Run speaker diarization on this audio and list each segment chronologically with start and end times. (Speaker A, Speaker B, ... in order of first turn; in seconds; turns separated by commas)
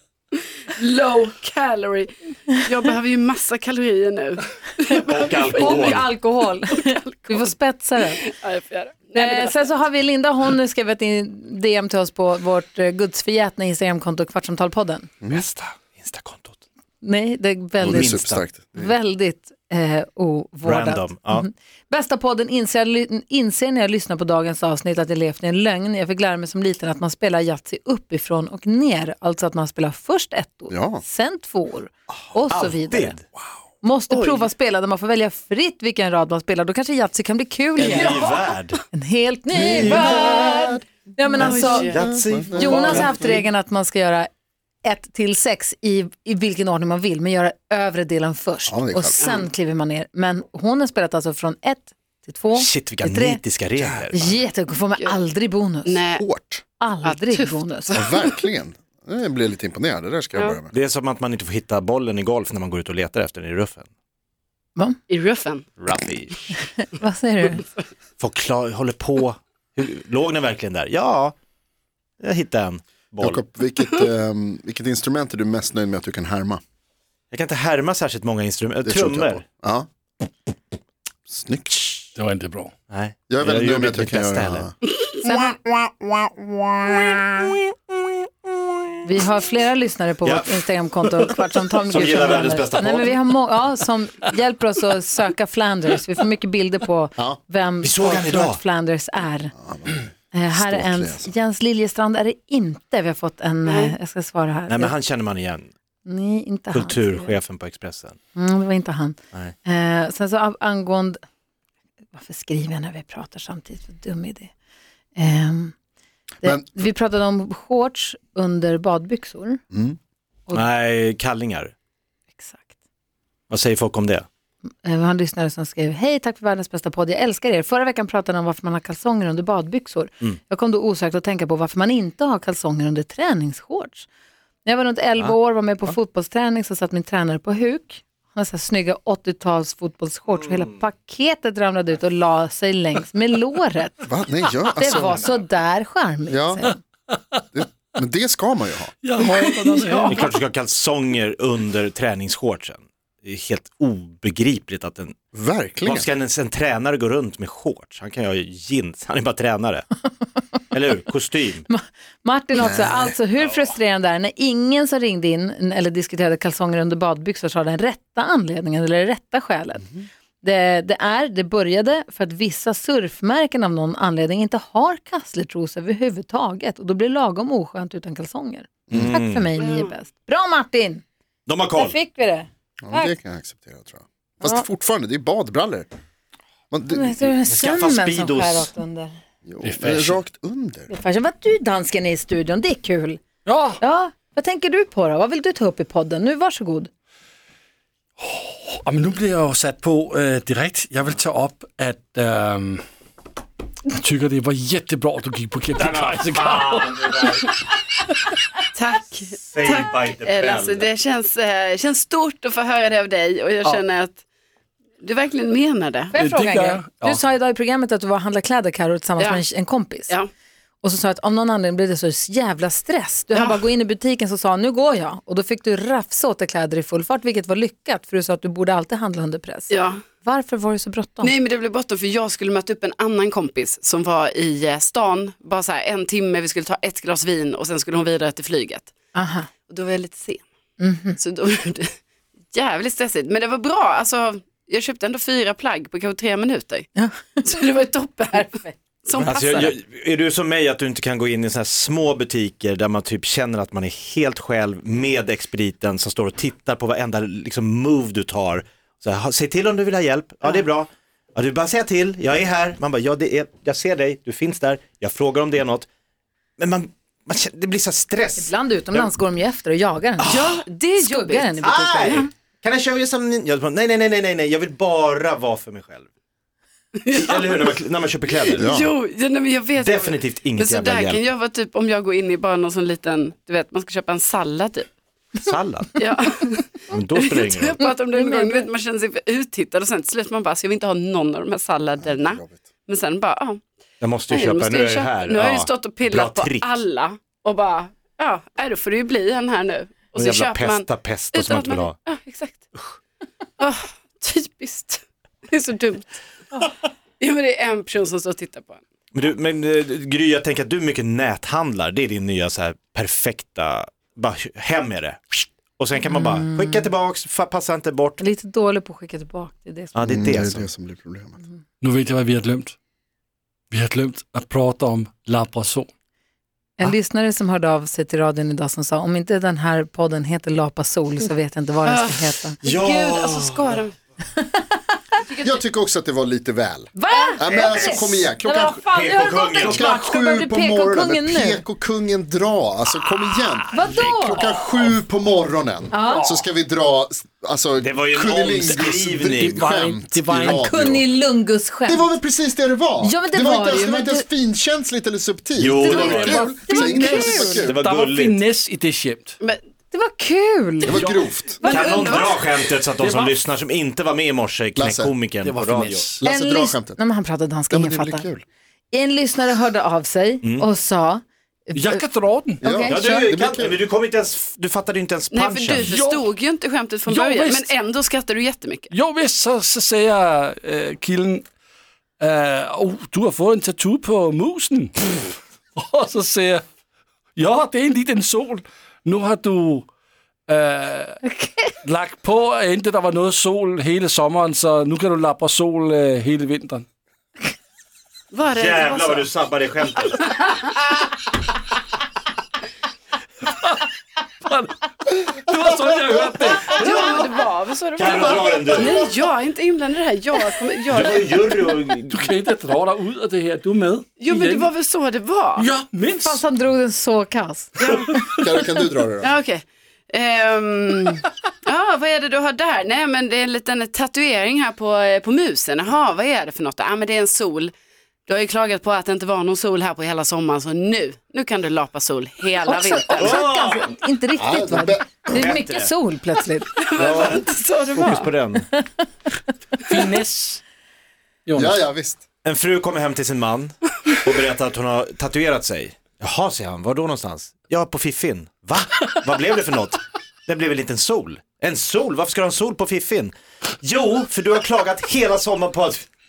Speaker A: 0.7-6.0, Speaker B: 5.0-8.2, Speaker C: 5.0-6.1, Speaker A: 6.7-7.5, Speaker A: 8.2-9.6, Speaker B: 9.2-15.1, Speaker C: 15.3-16.6, Speaker B: 17.0-33.2, Speaker D: 17.8-18.9, Speaker C: 17.9-18.5, Speaker C: 20.6-21.5, Speaker D: 30.7-31.0, Speaker C: 32.5-33.2, Speaker B: 33.8-38.3, Speaker A: 34.1-34.5, Speaker C: 37.8-38.8, Speaker A: 37.9-38.3, Speaker B: 38.9-42.0, Speaker D: 39.5-40.8, Speaker C: 39.6-40.2, Speaker A: 41.4-42.1, Speaker D: 41.5-43.1, Speaker C: 41.8-43.1, Speaker B: 42.5-44.3, Speaker B: 44.8-53.4, Speaker D: 48.7-49.2, Speaker A: 49.2-49.5, Speaker C: 52.5-54.4, Speaker B: 54.1-56.0, Speaker A: 55.9-56.2, Speaker D: 56.1-56.6, Speaker B: 56.8-57.9, Speaker A: 57.0-58.3, Speaker D: 57.9-60.7, Speaker C: 60.7-63.9, Speaker A: 65.1-65.7, Speaker C: 65.8-66.6, Speaker B: 66.7-67.7, Speaker C: 68.2-71.3, Speaker C: 72.2-73.4, Speaker D: 73.2-76.6, Speaker C: 77.3-79.4, Speaker D: 78.8-79.9, Speaker D: 81.3-82.0, Speaker E: 82.2-82.7, Speaker C: 82.9-84.7, Speaker D: 83.3-84.7, Speaker B: 85.2-85.6, Speaker D: 85.6-87.5, Speaker B: 89.0-99.5, Speaker C: 90.2-90.6, Speaker C: 91.9-93.2, Speaker C: 97.8-98.6, Speaker D: 99.6-101.3, Speaker B: 100.3-104.9, Speaker A: 103.7-104.0, Speaker C: 104.7-105.7, Speaker B: 106.1-107.4, Speaker C: 106.7-108.2, Speaker B: 108.3-111.2, Speaker B: 112.2-114.5, Speaker B: 115.2-115.7, Speaker B: 116.4-119.6, Speaker D: 119.7-120.0, Speaker C: 120.5-121.7, Speaker B: 122.4-122.7, Speaker C: 123.5-124.3, Speaker B: 124.8-134.1, Speaker B: 134.7-144.0, Speaker C: 140.3-140.7, Speaker D: 144.1-145.3, Speaker B: 144.7-146.8, Speaker D: 146.3-146.7, Speaker E: 147.1-147.4, Speaker D: 147.5-148.9, Speaker E: 149.0-150.4, Speaker C: 150.1-155.2, Speaker D: 155.3-156.1, Speaker C: 155.8-159.9, Speaker C: 160.7-161.7, Speaker B: 161.7-181.0, Speaker D: 162.6-163.2, Speaker C: 178.9-179.5, Speaker A: 179.6-179.9, Speaker C: 181.5-182.0, Speaker B: 181.7-183.2, Speaker D: 182.8-185.9, Speaker B: 184.4-184.7, Speaker D: 186.7-187.3, Speaker B: 186.9-189.1, Speaker C: 187.5-188.7, Speaker D: 189.5-190.9, Speaker E: 189.6-190.2, Speaker B: 190.9-193.2, Speaker E: 193.5-193.8, Speaker B: 193.8-196.9, Speaker E: 198.2-202.8, Speaker E: 203.9-207.3, Speaker C: 205.8-207.6, Speaker A: 208.8-214.2, Speaker C: 209.4-210.9, Speaker A: 215.0-216.1, Speaker B: 216.1-220.2, Speaker E: 216.2-217.2, Speaker A: 219.2-219.4, Speaker B: 220.8-231.3, Speaker A: 223.3-223.6, Speaker A: 229.7-230.0, Speaker A: 231.2-238.9, Speaker B: 239.1-239.5, Speaker A: 239.7-240.5, Speaker B: 240.8-241.2, Speaker A: 241.2-241.9, Speaker A: 242.5-246.9, Speaker B: 247.0-247.2, Speaker A: 247.4-248.5, Speaker B: 248.3-248.8, Speaker A: 249.1-249.8, Speaker C: 249.2-265.9, Speaker C: 266.6-269.1, Speaker B: 268.4-272.3, Speaker C: 270.2-270.5, Speaker A: 270.4-272.3, Speaker C: 271.6-276.1, Speaker A: 277.0-277.8, Speaker C: 277.2-278.7, Speaker A: 278.3-284.9, Speaker D: 278.6-278.9, Speaker C: 279.8-281.3, Speaker C: 285.4-286.0, Speaker A: 286.0-293.6, Speaker C: 286.9-287.8, Speaker B: 287.8-288.7, Speaker D: 292.0-292.6, Speaker C: 294.0-296.8, Speaker A: 294.3-302.6, Speaker C: 300.2-301.9, Speaker A: 303.6-306.2, Speaker A: 307.2-308.8, Speaker C: 309.1-318.2, Speaker B: 316.0-316.9, Speaker B: 318.2-320.0, Speaker C: 319.9-320.7, Speaker D: 320.1-321.4, Speaker E: 321.8-322.8, Speaker E: 323.7-325.9, Speaker B: 326.8-332.6, Speaker A: 331.9-333.9, Speaker C: 332.6-333.7, Speaker B: 334.4-334.8, Speaker A: 335.3-335.6, Speaker D: 335.4-338.8, Speaker B: 336.9-341.6, Speaker C: 337.4-338.0, Speaker C: 338.8-339.9, Speaker D: 339.5-351.1, Speaker C: 343.5-344.1, Speaker B: 343.7-344.4, Speaker B: 345.9-346.4, Speaker C: 347.8-349.6, Speaker E: 349.2-350.7, Speaker B: 350.5-352.1, Speaker D: 351.9-357.8, Speaker B: 353.0-354.3, Speaker C: 355.6-356.4, Speaker B: 355.8-357.7, Speaker E: 355.9-359.4, Speaker C: 357.6-358.4, Speaker B: 359.9-360.9, Speaker D: 360.8-361.6, Speaker E: 360.9-361.3, Speaker A: 361.6-362.5, Speaker C: 361.6-366.1, Speaker E: 363.0-363.3, Speaker D: 364.8-365.1, Speaker E: 365.4-366.2, Speaker D: 366.2-367.0, Speaker B: 366.2-368.3, Speaker D: 367.7-368.4, Speaker B: 368.9-372.1, Speaker C: 370.4-370.7, Speaker E: 371.7-372.6, Speaker B: 372.6-373.4, Speaker D: 372.6-373.8, Speaker C: 372.9-375.9, Speaker A: 375.3-378.9, Speaker E: 375.8-376.3, Speaker E: 377.1-377.7, Speaker E: 378.9-381.5, Speaker E: 382.2-386.6, Speaker E: 387.4-389.9, Speaker E: 390.5-391.2, Speaker B: 391.2-391.7, Speaker E: 391.8-396.9, Speaker A: 398.3-399.3, Speaker C: 398.5-400.3, Speaker E: 403.4-403.9, Speaker E: 404.4-407.2, Speaker A: 406.6-411.4, Speaker C: 408.0-409.0, Speaker E: 408.1-408.4, Speaker C: 410.9-412.3, Speaker E: 412.1-414.7, Speaker A: 414.2-415.7, Speaker E: 415.6-416.4, Speaker B: 416.2-417.9, Speaker A: 417.8-418.1, Speaker D: 418.4-419.3, Speaker A: 419.2-427.7, Speaker A: 428.3-433.5, Speaker B: 432.6-436.7, Speaker C: 433.2-433.9, Speaker D: 434.4-435.4, Speaker C: 435.3-435.9, Speaker A: 436.8-438.3, Speaker C: 437.0-438.7, Speaker B: 438.7-439.0, Speaker E: 439.9-440.6, Speaker E: 441.5-441.8, Speaker D: 441.6-442.2, Speaker C: 442.4-456.1